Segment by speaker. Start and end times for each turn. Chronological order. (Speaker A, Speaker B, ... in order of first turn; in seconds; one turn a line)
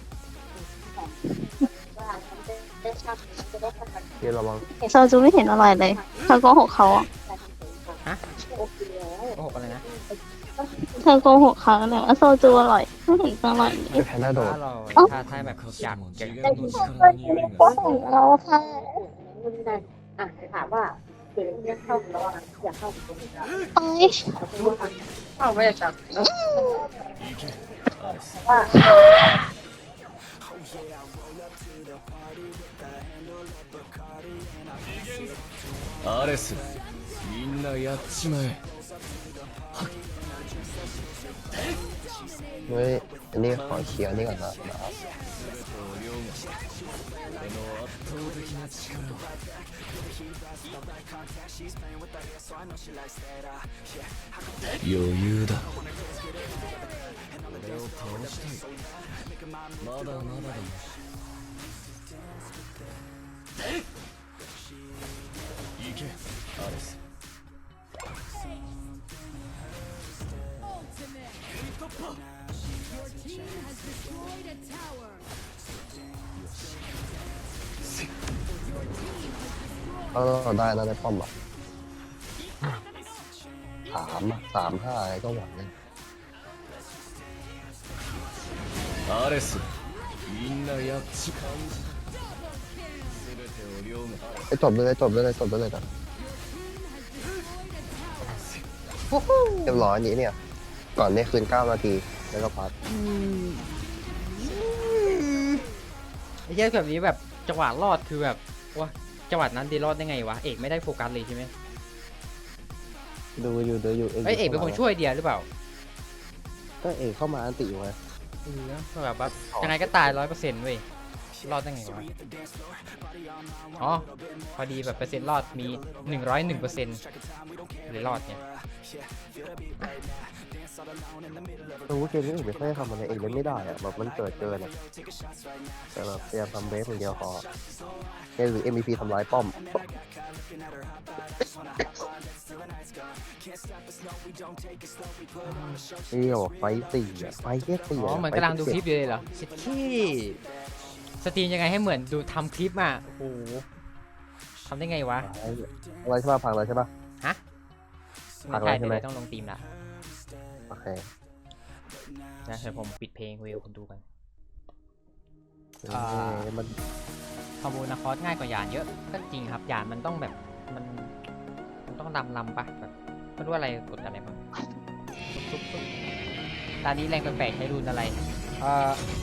Speaker A: 0.8-4.2
Speaker B: 4.2-4.7
Speaker A: 4.8-12.0
Speaker C: 4.8-7.1
Speaker D: 9.3-9.8
Speaker C: 11.0-14.1
Speaker D: 13.9-16.8
Speaker B: 13.9-14.6
Speaker E: 15.0-17.8
Speaker C: 16.5-19.0
Speaker A: 17.6-23.6
Speaker C: 23.8-24.4
Speaker A: 24.4-26.9
Speaker C: 26.3-26.8
Speaker E: 27.2-28.4
Speaker A: 28.4-29.1
Speaker E: 36.0-38.6
Speaker B: 42.7-45.0
Speaker E: 43.4-44.7
Speaker E: 45.3-46.6
Speaker E: 47.4-49.3
Speaker E: 54.8-55.8
Speaker E: 57.4-58.8
Speaker E: 59.8-60.9
Speaker E: 65.8-67.0
Speaker B: 80.1-81.3
Speaker B: 83.9-85.7
Speaker E: 89.0-89.7
Speaker E: 90.2-92.2
Speaker E: 93.0-94.6
Speaker B: 94.5-95.8
Speaker D: 99.1-99.8
Speaker B: 99.7-100.4
Speaker B: 101.0-102.7
Speaker D: 104.4-105.6
Speaker D: 106.5-111.5
Speaker B: 113.4-114.8
Speaker D: 114.2-115.5
Speaker B: 116.8-118.0
Speaker D: 118.4-120.8
Speaker B: 119.2-120.2
Speaker D: 121.4-122.1
Speaker D: 123.8-127.0
Speaker D: 127.8-128.4
Speaker B: 131.9-134.7
Speaker B: 135.9-137.4
Speaker B: 138.4-139.7
Speaker B: 145.4-148.8
Speaker D: 148.0-150.4
Speaker D: 151.2-153.6
Speaker D: 154.7-155.3
Speaker B: 155.2-156.9
Speaker D: 158.4-159.6
Speaker B: 158.5-159.0
Speaker B: 160.7-161.1
Speaker D: 162.5-164.0
Speaker B: 165.8-166.7
Speaker D: 165.9-166.5
Speaker D: 167.6-171.1
Speaker D: 171.8-174.4
Speaker D: 175.3-175.8
Speaker D: 176.8-179.0